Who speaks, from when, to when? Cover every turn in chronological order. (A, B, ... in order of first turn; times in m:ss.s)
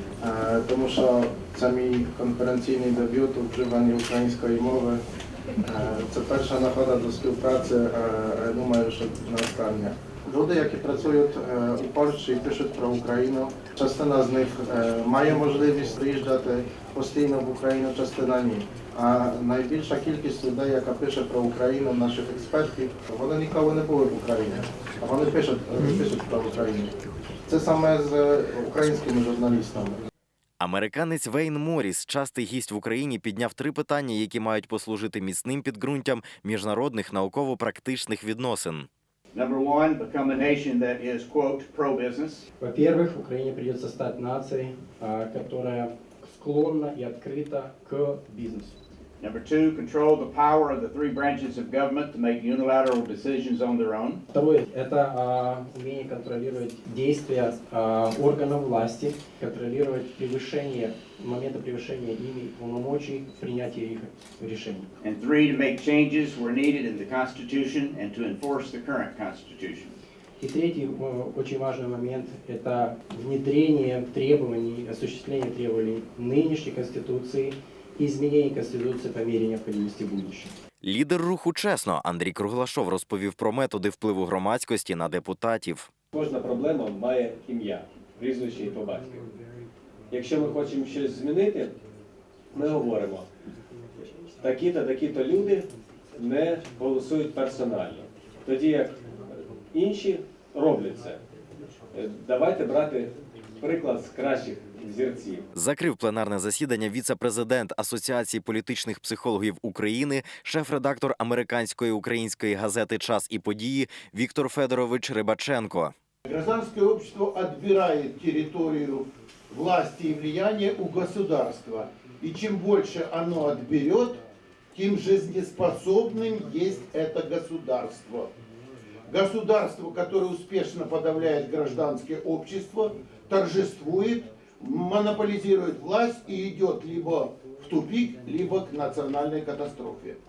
0:00.2-0:05.0 A
0:05.6-0:26.9 A
0:27.5-0:30.0 A
0:30.6-0:38.9 B
0:39.3-0:42.4 C
0:42.6-0:48.7 D
0:49.2-0:54.2 C
0:54.3-1:04.8 D
1:05.0-1:09.9 C
1:10.4-1:20.5 D
1:20.8-1:25.9 B
1:26.1-1:29.3 E
1:30.1-1:31.8 E
1:32.5-1:33.3 E
1:34.4-1:41.2 E
1:41.9-1:45.4 E
1:45.5-1:55.9 B
1:56.2-2:04.2 F
2:04.7-2:08.3 F
2:09.1-2:20.2 F